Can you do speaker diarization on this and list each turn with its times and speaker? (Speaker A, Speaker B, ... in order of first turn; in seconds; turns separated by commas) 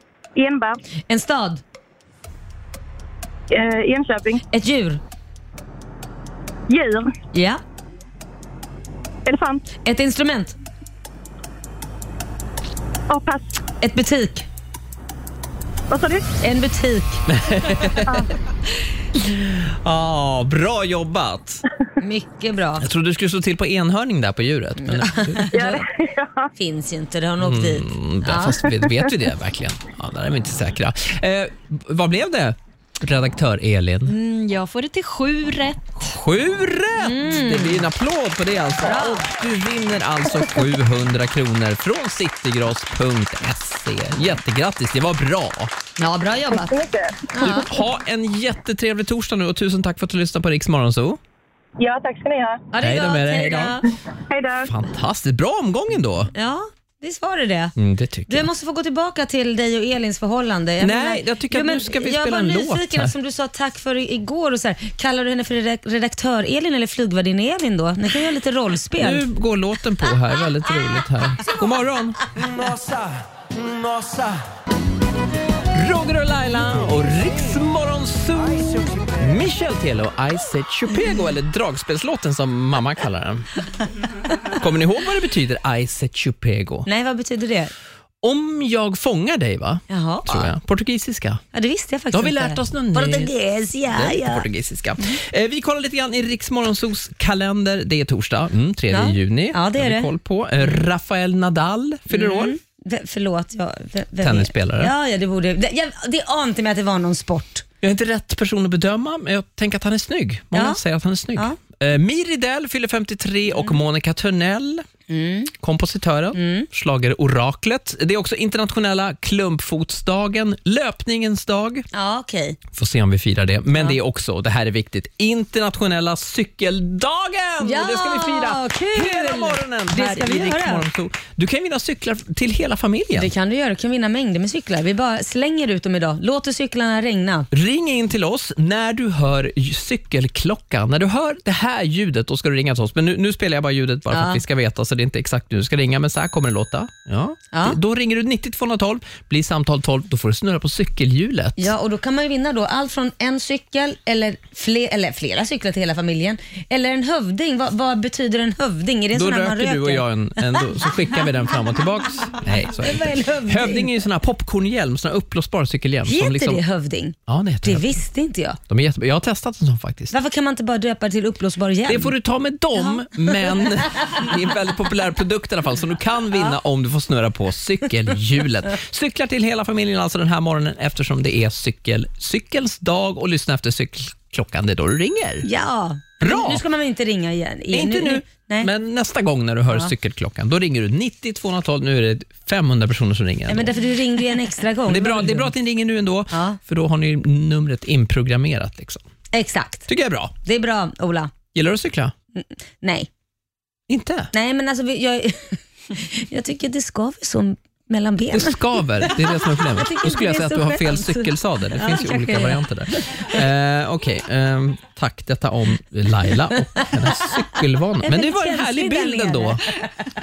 Speaker A: 0.3-0.8, Speaker B: 1.1-1.6, Speaker A: 3.5-4.4, Speaker B: 4.5-5.0, Speaker A: 6.7-7.1, Speaker B: 7.3-7.6, Speaker A: 9.2-9.7, Speaker B: 9.8-10.6, Speaker A: 13.1-13.6, Speaker B: 13.8-14.5, Speaker A: 15.9-16.2, Speaker B: 16.4-17.2, Speaker C: 17.3-18.2, Speaker C: 19.5-21.6, Speaker B: 22.0-22.8, Speaker C: 22.8-25.7, Speaker B: 24.8-25.8, Speaker A: 25.5-26.5, Speaker B: 26.6-28.8, Speaker C: 27.4-34.1, Speaker D: 34.1-36.1, Speaker C: 36.0-45.7, Speaker B: 37.0-37.9, Speaker B: 38.8-39.2, Speaker B: 46.0-46.7, Speaker A: 46.5-47.3, Speaker B: 47.3-47.6, Speaker C: 47.4-51.2, Speaker A: 51.8-52.6, Speaker B: 52.7-53.9, Speaker C: 52.8-53.8, Speaker A: 54.3-54.7, Speaker C: 54.6-56.3, Speaker B: 56.3-57.7, Speaker C: 57.8-58.5, Speaker B: 58.3-69.2, Speaker C: 60.8-63.1, Speaker C: 69.0-72.2, Speaker E: 72.3-74.4, Speaker C: 75.7-83.5, Speaker E: 78.6-79.2, Speaker C: 84.5-86.9, Speaker B: 86.8-87.7, Speaker C: 88.2-91.4, Speaker B: 89.9-90.5, Speaker B: 91.5-94.4, Speaker C: 92.1-93.3, Speaker C: 93.8-102.5, Speaker B: 98.9-100.1, Speaker B: 102.1-107.6, Speaker C: 104.2-104.9, Speaker C: 107.8-114.8, Speaker B: 110.5-110.8, Speaker B: 115.1-115.5, Speaker C: 115.6-121.8, Speaker B: 116.3-116.7, Speaker B: 121.9-122.6, Speaker C: 122.7-133.3, Speaker B: 127.6-130.9, Speaker B: 133.2-137.5, Speaker C: 137.5-151.7, Speaker B: 144.1-144.4, Speaker B: 147.5-147.8, Speaker B: 151.6-160.1, Speaker C: 159.1-166.6, Speaker B: 162.8-163.9, Speaker B: 166.1-168.6, Speaker C: 167.3-168.0, Speaker C: 168.7-170.1, Speaker B: 170.1-172.2, Speaker C: 171.8-185.5, Speaker B: 172.9-173.7, Speaker B: 185.4-188.7, Speaker C: 186.2-186.6, Speaker C: 187.7-193.7, Speaker B: 193.5-195.5, Speaker C: 194.8-199.0, Speaker B: 196.3-196.6, Speaker B: 199.3-199.9, Speaker C: 199.9-200.3, Speaker B: 200.4-201.3, Speaker C: 201.5-202.1, Speaker B: 202.3-203.1, Speaker C: 203.9-204.3, Speaker B: 204.3-213.4, Speaker C: 208.3-219.6, Speaker B: 218.0-219.6